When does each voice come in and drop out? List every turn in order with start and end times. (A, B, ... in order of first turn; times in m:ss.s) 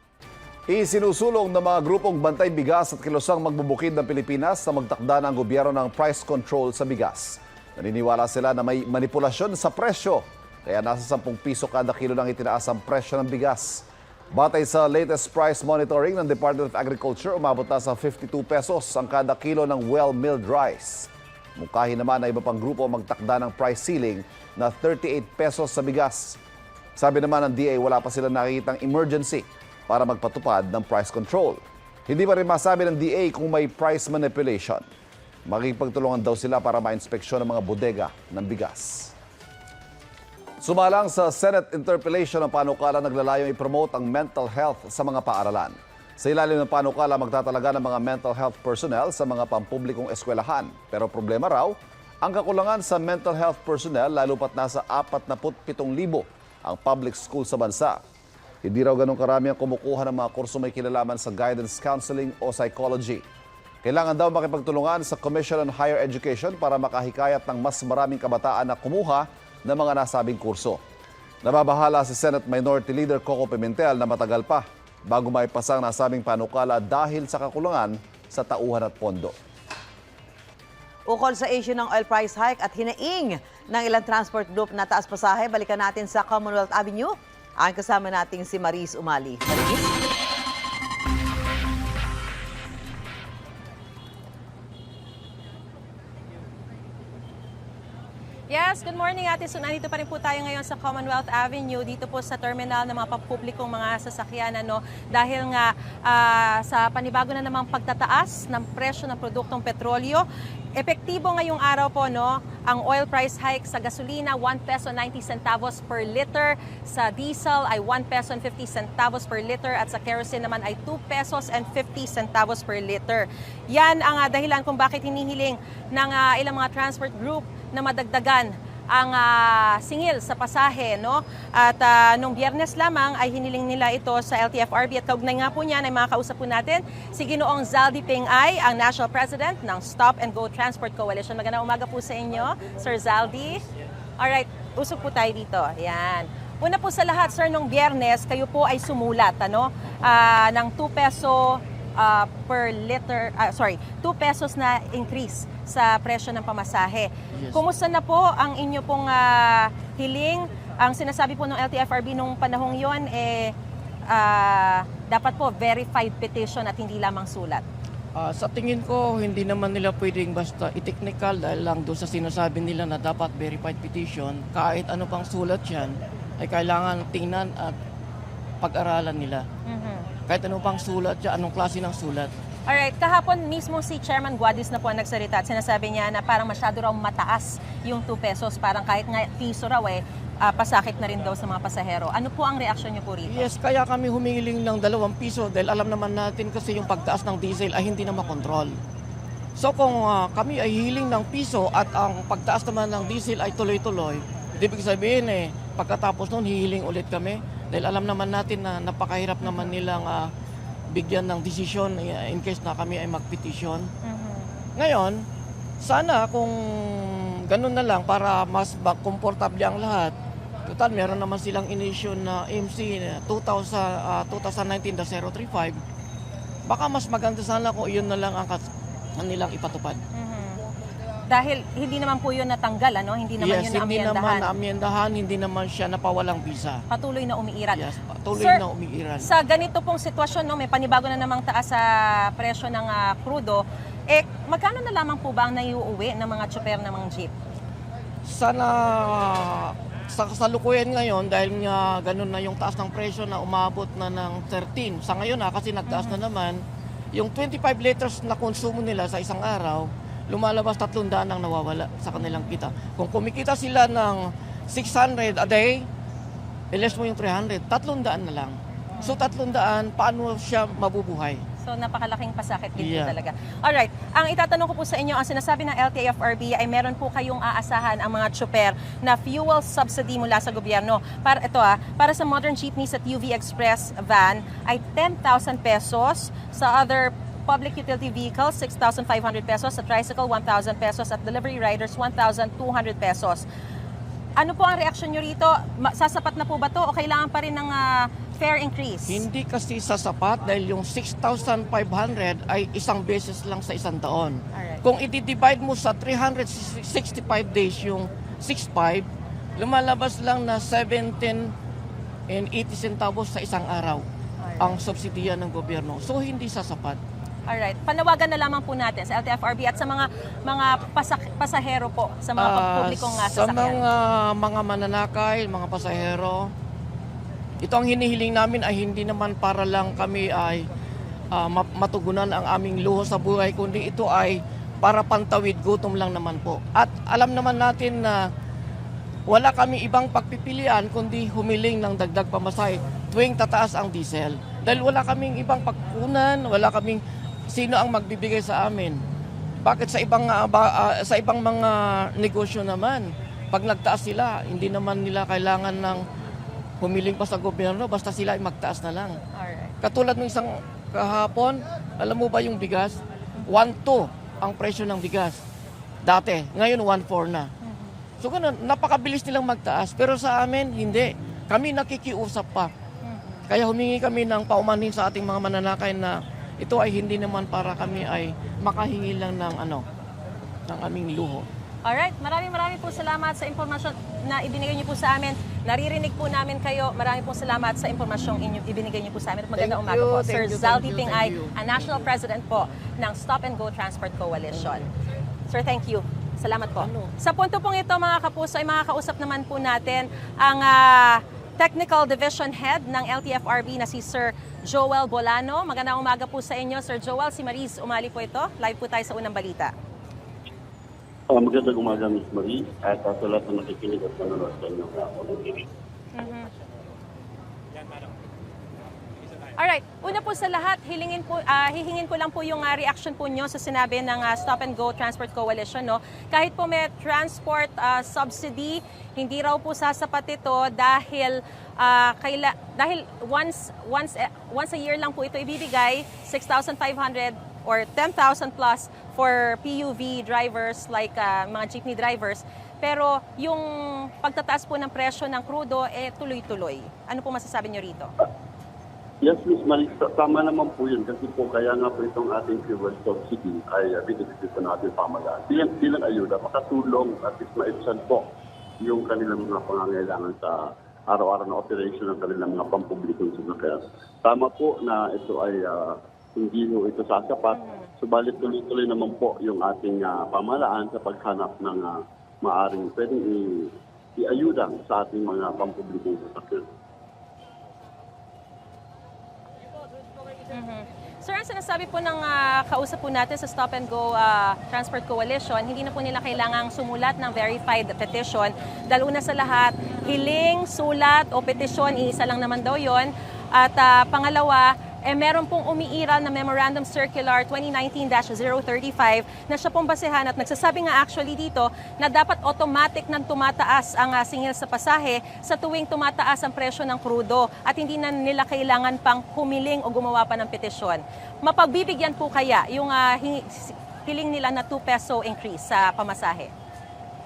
0:00.7-0:26.4 A
0:27.0-0:34.8 A
0:35.5-0:39.1 A
0:40.6-0:58.0 A
0:58.6-1:03.2 A
1:03.8-1:10.8 A
1:11.4-1:19.3 A
1:21.1-1:29.9 B
1:38.5-1:50.2 C
1:50.8-2:23.6 C
2:24.2-2:43.5 C
2:37.3-2:37.6 D
2:44.1-2:47.6 C
2:48.2-2:57.8 D
2:58.6-2:59.4 D
2:59.6-3:00.1 C
3:00.3-3:02.3 D
3:02.7-3:13.5 C
3:13.3-3:18.8 D
3:19.6-3:30.3 D
3:29.4-3:29.7 C
3:30.9-3:33.9 D
3:34.0-3:34.5 C
3:34.8-3:35.2 D
3:35.8-3:40.1 D
3:40.6-3:45.8 D
3:46.7-3:50.0 D
3:50.1-3:50.6 C
3:51.3-3:54.5 C
3:53.4-3:56.8 D
3:56.9-3:57.8 C
3:57.7-3:59.3 D
3:58.3-3:58.6 C
3:59.2-4:07.3 C
4:08.3-4:16.6 D
4:15.9-4:16.2 C
4:17.1-4:25.8 D
4:22.2-4:22.5 C
4:26.7-4:31.4 D
4:29.0-4:29.3 C
4:31.6-4:53.4 C
4:32.8-4:33.2 D
4:54.4-4:59.2 C
4:59.0-5:09.1 D
5:04.5-5:04.8 C
5:09.6-5:11.5 D
5:12.3-5:14.0 D
5:14.4-5:14.7 C
5:14.6-5:17.0 D
5:17.5-5:23.8 C
5:22.4-5:26.5 D
5:27.6-5:30.6 D
5:31.3-5:38.2 D
5:39.3-5:49.0 D
5:49.6-5:56.0 D
5:56.8-5:59.2 D
5:59.3-5:59.7 C
5:59.8-6:05.4 D
6:06.0-6:07.5 D
6:07.6-6:08.0 C
6:08.2-6:12.7 D
6:13.0-6:13.4 C
6:13.5-6:19.8 D
6:20.7-6:21.4 D
6:21.8-6:34.8 C
6:29.5-6:32.1 D
6:34.5-6:34.8 D
6:35.5-6:49.7 C
6:36.8-6:37.1 D
6:51.3-6:55.6 E
6:56.1-6:56.5 C
6:59.6-7:28.1 C
7:29.2-7:38.3 E
7:38.8-7:56.6 E
7:47.6-7:47.8 C
8:00.5-8:36.5 C